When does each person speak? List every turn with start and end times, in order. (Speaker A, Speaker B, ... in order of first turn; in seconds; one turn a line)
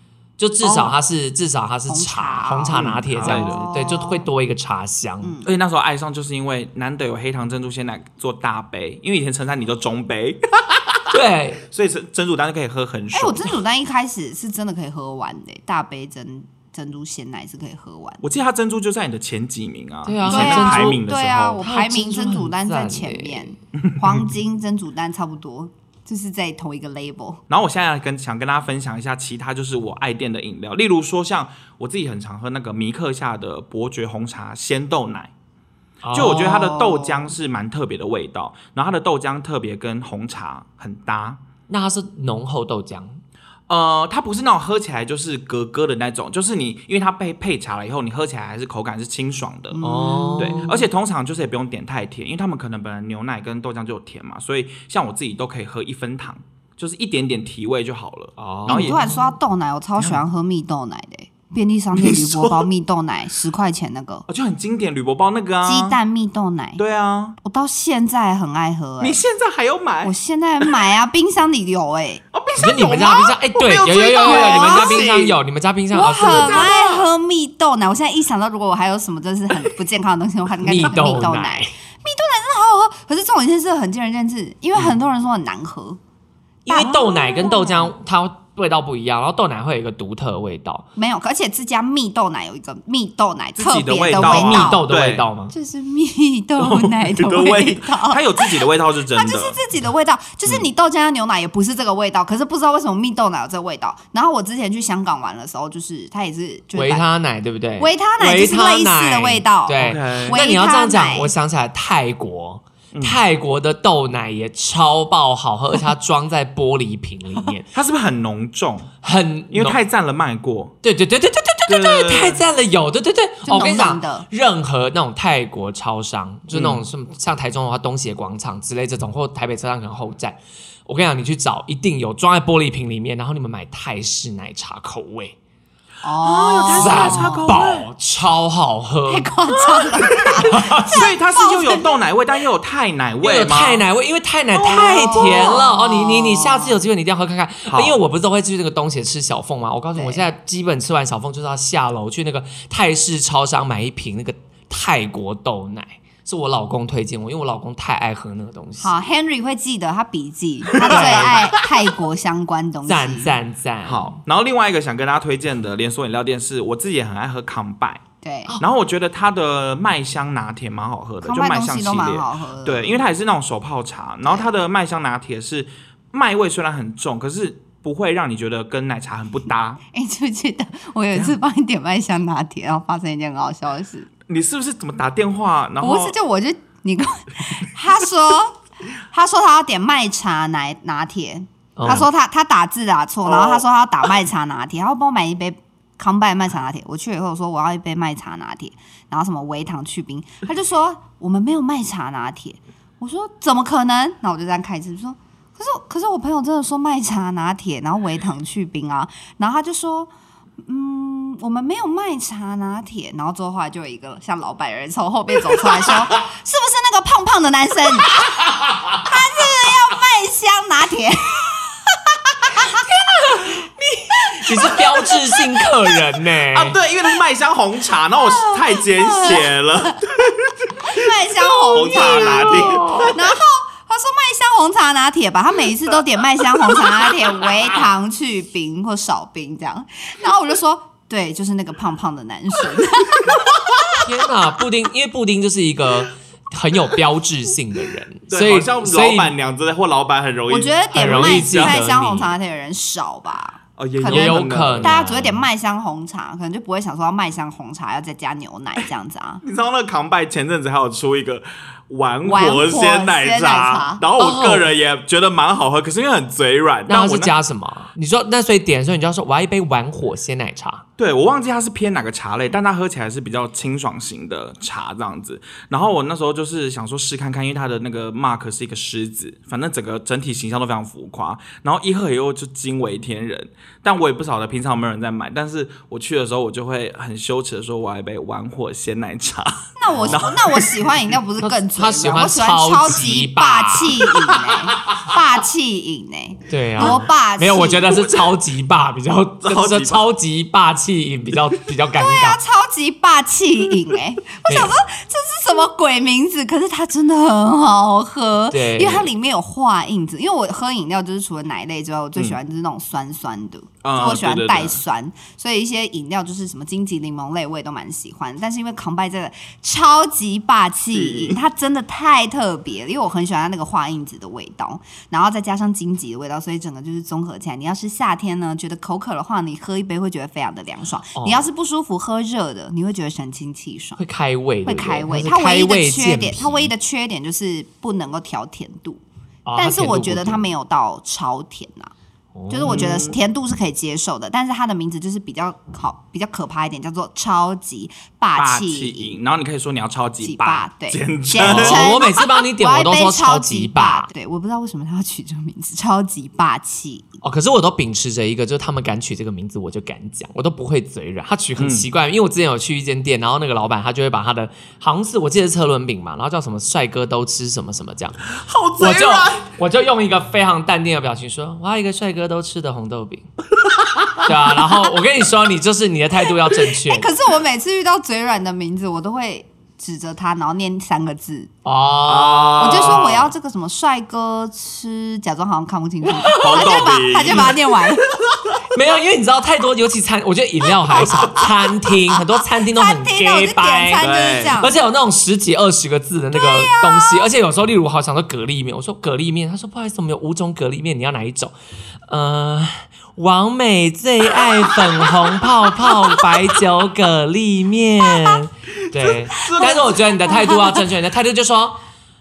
Speaker A: 0.4-5.4
Speaker B: 0.6-1.0
Speaker C: 1.9-4.3
Speaker B: 2.7-3.6
Speaker C: 5.2-5.5
Speaker B: 5.4-13.6
Speaker A: 11.1-11.6
Speaker C: 13.1-18.2
Speaker B: 18.2-21.6
Speaker A: 20.1-21.0
Speaker C: 20.3-27.4
Speaker A: 21.6-23.5
Speaker B: 23.8-24.3
Speaker B: 27.5-35.3
Speaker A: 36.0-36.7
Speaker B: 36.1-41.4
Speaker C: 36.3-37.3
Speaker A: 41.7-43.2
Speaker B: 43.7-49.8
Speaker C: 49.7-50.8
Speaker A: 49.8-50.8
Speaker B: 50.4-59.1
Speaker A: 58.4-59.2
Speaker C: 58.7-64.3
Speaker B: 62.0-62.7
Speaker B: 64.3-66.0
Speaker C: 65.6-66.8
Speaker B: 66.8-67.4
Speaker C: 67.4-69.2
Speaker B: 69.0-70.8
Speaker C: 70.0-72.2
Speaker B: 72.3-75.3
Speaker A: 72.6-76.8
Speaker C: 73.7-75.2
Speaker C: 75.9-86.0
Speaker B: 76.2-77.0
Speaker A: 80.6-81.7
Speaker A: 86.7-90.9
Speaker B: 86.7-87.2
Speaker C: 86.7-87.9
Speaker C: 91.0-94.8
Speaker B: 93.6-95.3
Speaker A: 94.1-95.5
Speaker C: 95.5-107.0
Speaker B: 96.6-99.6
Speaker A: 106.8-117.7
Speaker C: 107.8-111.3
Speaker B: 109.8-110.4
Speaker B: 112.9-113.2
Speaker B: 117.7-118.9
Speaker A: 119.0-119.8
Speaker B: 119.5-120.8
Speaker A: 120.8-135.3
Speaker B: 121.7-122.4
Speaker C: 123.5-124.3
Speaker B: 126.5-126.8
Speaker C: 136.0-137.5
Speaker B: 136.2-137.9
Speaker A: 136.8-139.3
Speaker C: 139.1-141.9
Speaker B: 139.8-143.8
Speaker A: 140.4-141.1
Speaker A: 143.2-159.0
Speaker B: 144.5-145.7
Speaker C: 144.7-146.8
Speaker B: 147.7-148.0
Speaker C: 149.9-150.2
Speaker C: 158.8-163.3
Speaker B: 160.7-161.5
Speaker A: 160.8-161.3
Speaker A: 162.9-164.2
Speaker B: 163.8-168.0
Speaker C: 168.2-168.5
Speaker B: 168.6-179.8
Speaker C: 171.2-173.0
Speaker C: 179.9-184.1
Speaker B: 184.3-186.2
Speaker C: 185.8-210.1
Speaker A: 191.8-192.1
Speaker B: 193.3-193.6
Speaker C: 210.7-218.2
Speaker C: 218.9-223.4
Speaker A: 223.2-226.8
Speaker C: 224.2-225.7
Speaker B: 226.5-233.3
Speaker C: 228.3-229.5
Speaker C: 230.8-244.1
Speaker A: 231.9-233.2
Speaker A: 244.0-249.3
Speaker B: 248.3-251.8
Speaker C: 250.5-259.4
Speaker A: 250.9-252.3
Speaker B: 253.8-254.9
Speaker A: 254.1-255.5
Speaker B: 259.4-267.4
Speaker C: 262.2-264.0
Speaker A: 264.2-264.7
Speaker A: 266.9-270.8
Speaker B: 271.0-290.9
Speaker C: 289.8-297.9
Speaker A: 289.9-290.2
Speaker A: 291.4-294.1
Speaker A: 296.5-302.4
Speaker B: 297.9-298.3
Speaker B: 299.4-300.1
Speaker C: 302.0-334.0
Speaker A: 304.5-304.7
Speaker A: 308.5-309.1
Speaker B: 313.8-314.8
Speaker B: 320.9-321.4
Speaker A: 331.1-331.4
Speaker A: 334.0-336.7
Speaker C: 334.6-339.0
Speaker A: 339.5-340.5
Speaker C: 339.6-341.9
Speaker A: 342.4-342.9
Speaker C: 342.5-349.2
Speaker B: 342.7-343.2
Speaker B: 348.4-352.0
Speaker C: 350.2-357.2
Speaker A: 351.4-354.1
Speaker A: 357.2-368.2
Speaker B: 361.6-361.9
Speaker B: 368.3-369.5
Speaker A: 368.8-373.3
Speaker B: 373.9-374.3
Speaker A: 374.2-377.1
Speaker C: 376.8-381.5
Speaker A: 381.6-383.2
Speaker B: 382.1-383.3
Speaker C: 382.6-388.2
Speaker A: 386.1-386.8
Speaker B: 386.3-387.6
Speaker A: 388.7-401.5
Speaker C: 390.8-394.7
Speaker B: 394.0-394.6
Speaker C: 396.3-397.2
Speaker A: 402.1-411.8
Speaker B: 408.9-410.0
Speaker C: 409.6-410.8